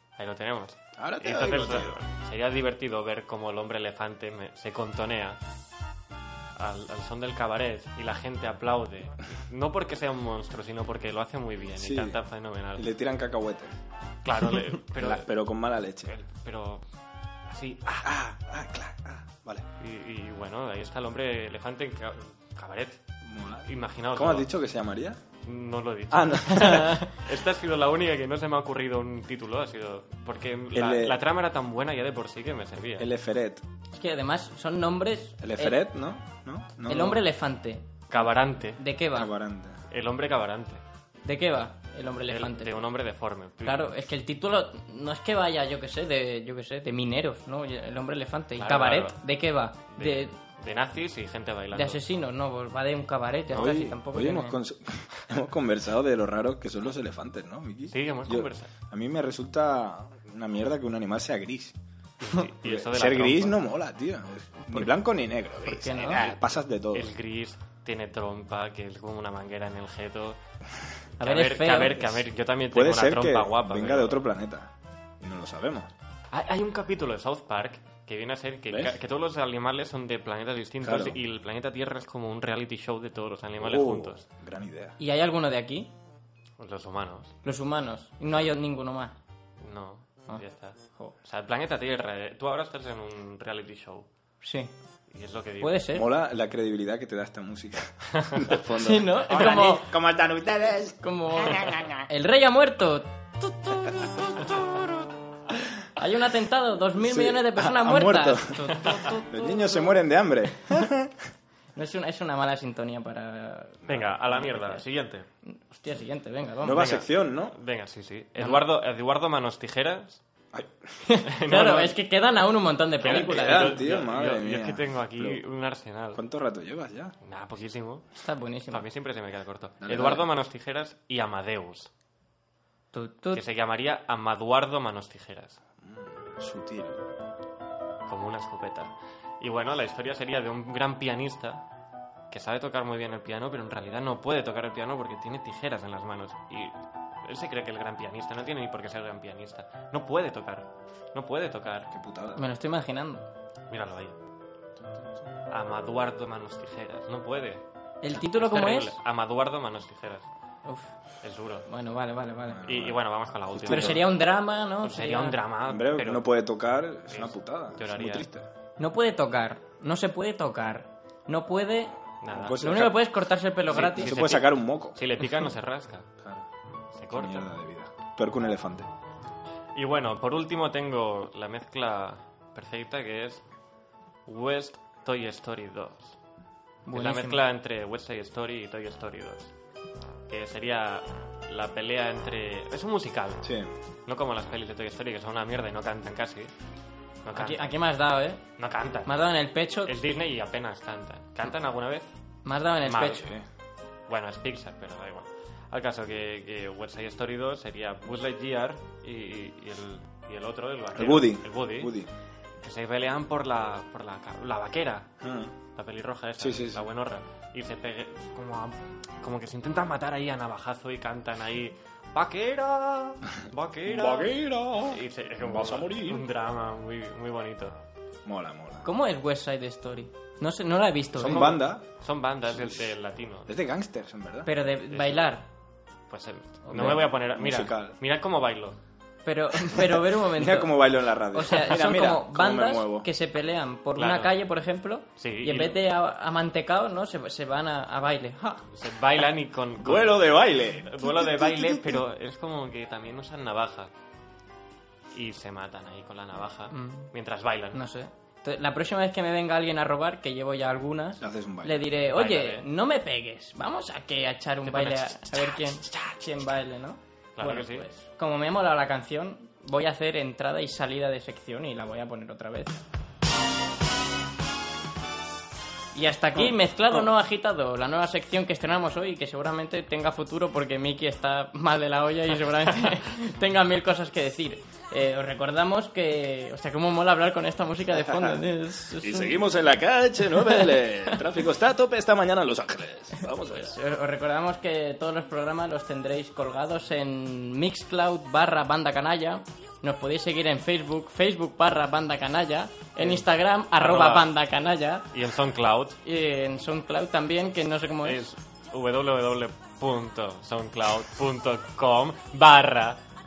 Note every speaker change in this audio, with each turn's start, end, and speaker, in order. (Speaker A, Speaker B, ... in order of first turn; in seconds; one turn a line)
Speaker A: 0.2-5.4
Speaker B: 1.0-2.0
Speaker A: 6.5-12.9
Speaker B: 11.8-12.2
Speaker B: 12.7-13.8
Speaker A: 14.2-15.3
Speaker B: 15.0-16.1
Speaker A: 16.0-16.8
Speaker A: 17.5-18.1
Speaker B: 18.0-19.6
Speaker A: 19.8-23.0
Speaker B: 23.2-25.2
Speaker A: 23.6-24.5
Speaker A: 25.4-33.1
Speaker B: 26.1-27.0
Speaker C: 26.7-27.1
Speaker B: 30.7-31.2
Speaker B: 33.0-33.6
Speaker C: 33.9-35.8
Speaker B: 35.4-37.2
Speaker C: 36.9-37.9
Speaker A: 38.1-38.8
Speaker C: 38.8-39.3
Speaker B: 39.1-39.8
Speaker A: 39.9-40.8
Speaker C: 41.2-42.8
Speaker A: 42.3-43.9
Speaker C: 43.6-50.3
Speaker A: 48.6-49.2
Speaker A: 49.9-52.0
Speaker C: 51.7-54.6
Speaker B: 53.5-61.8
Speaker A: 57.9-58.7
Speaker A: 62.2-63.6
Speaker B: 62.6-67.1
Speaker C: 65.6-66.3
Speaker A: 66.9-70.4
Speaker C: 71.2-72.0
Speaker A: 71.2-74.2
Speaker B: 72.7-75.9
Speaker A: 76.3-84.2
Speaker B: 78.7-78.9
Speaker B: 80.8-81.2
Speaker B: 83.6-85.0
Speaker C: 85.0-85.9
Speaker A: 86.6-87.3
Speaker C: 87.4-89.1
Speaker A: 89.6-94.1
Speaker C: 94.4-94.7
Speaker A: 95.1-95.8
Speaker C: 95.6-96.1
Speaker B: 95.9-101.8
Speaker C: 98.8-99.9
Speaker A: 99.3-99.7
Speaker C: 101.0-104.8
Speaker C: 105.9-110.0
Speaker B: 107.0-111.1
Speaker C: 111.7-114.8
Speaker B: 113.8-114.1
Speaker A: 113.9-115.3
Speaker C: 115.5-116.9
Speaker B: 116.6-117.5
Speaker A: 116.7-120.2
Speaker C: 121.0-123.8
Speaker A: 121.3-121.9
Speaker A: 123.0-126.2
Speaker B: 123.0-125.4
Speaker B: 126.1-127.1
Speaker A: 127.2-128.1
Speaker C: 128.2-128.8
Speaker A: 128.7-131.9
Speaker B: 129.8-130.3
Speaker C: 132.9-133.4
Speaker A: 133.3-135.6
Speaker B: 135.8-137.0
Speaker A: 138.1-141.6
Speaker A: 142.3-151.9
Speaker B: 151.9-152.4
Speaker C: 152.3-153.2
Speaker A: 153.7-154.2
Speaker A: 155.5-160.3
Speaker C: 158.0-158.9
Speaker C: 160.6-160.9
Speaker A: 161.2-161.7
Speaker C: 161.7-162.6
Speaker B: 162.5-163.0
Speaker A: 162.7-164.1
Speaker B: 163.5-164.0
Speaker C: 163.7-165.4
Speaker A: 164.8-166.3
Speaker B: 165.7-168.5
Speaker A: 167.1-168.3
Speaker C: 168.8-171.9
Speaker A: 172.2-172.6
Speaker B: 172.3-173.0
Speaker C: 172.6-174.2
Speaker B: 173.7-175.0
Speaker A: 173.7-176.1
Speaker B: 176.2-176.5
Speaker A: 176.9-177.4
Speaker B: 177.1-178.9
Speaker A: 179.7-183.4
Speaker A: 184.2-186.2
Speaker C: 186.8-187.4
Speaker A: 186.9-189.5
Speaker A: 190.3-193.5
Speaker B: 193.4-193.7
Speaker A: 194.1-196.5
Speaker A: 197.2-197.7
Speaker C: 197.3-198.4
Speaker A: 198.6-199.1
Speaker C: 199.1-199.9
Speaker A: 199.8-202.1
Speaker C: 202.4-203.2
Speaker A: 202.8-203.2
Speaker B: 203.0-203.4
Speaker A: 204.1-211.9
Speaker B: 210.9-212.1
Speaker A: 212.6-215.1
Speaker B: 215.2-215.5
Speaker A: 215.8-227.7
Speaker B: 216.4-216.8
Speaker B: 223.9-226.2
Speaker B: 228.2-228.8
Speaker C: 228.8-231.6
Speaker B: 231.2-231.9
Speaker A: 231.3-233.5
Speaker B: 232.5-232.9
Speaker B: 233.5-234.5
Speaker C: 234.4-235.4
Speaker A: 234.9-235.3
Speaker A: 236.1-238.8
Speaker C: 236.7-237.0
Speaker B: 236.7-237.9
Speaker C: 239.2-248.6
Speaker B: 239.7-243.1
Speaker A: 244.0-244.3
Speaker A: 245.2-245.8
Speaker A: 248.7-253.9
Speaker B: 249.8-252.0
Speaker A: 255.1-257.8
Speaker C: 256.7-257.1
Speaker C: 257.7-272.8
Speaker B: 261.2-261.9
Speaker A: 262.1-262.6
Speaker A: 264.6-266.1
Speaker A: 267.4-267.8
Speaker C: 275.9-289.4
Speaker B: 276.3-276.9
Speaker B: 288.0-288.4
Speaker B: 289.0-293.7
Speaker C: 293.4-305.1
Speaker A: 303.0-304.3
Speaker A: 305.1-306.0
Speaker C: 306.0-308.3
Speaker A: 308.0-313.0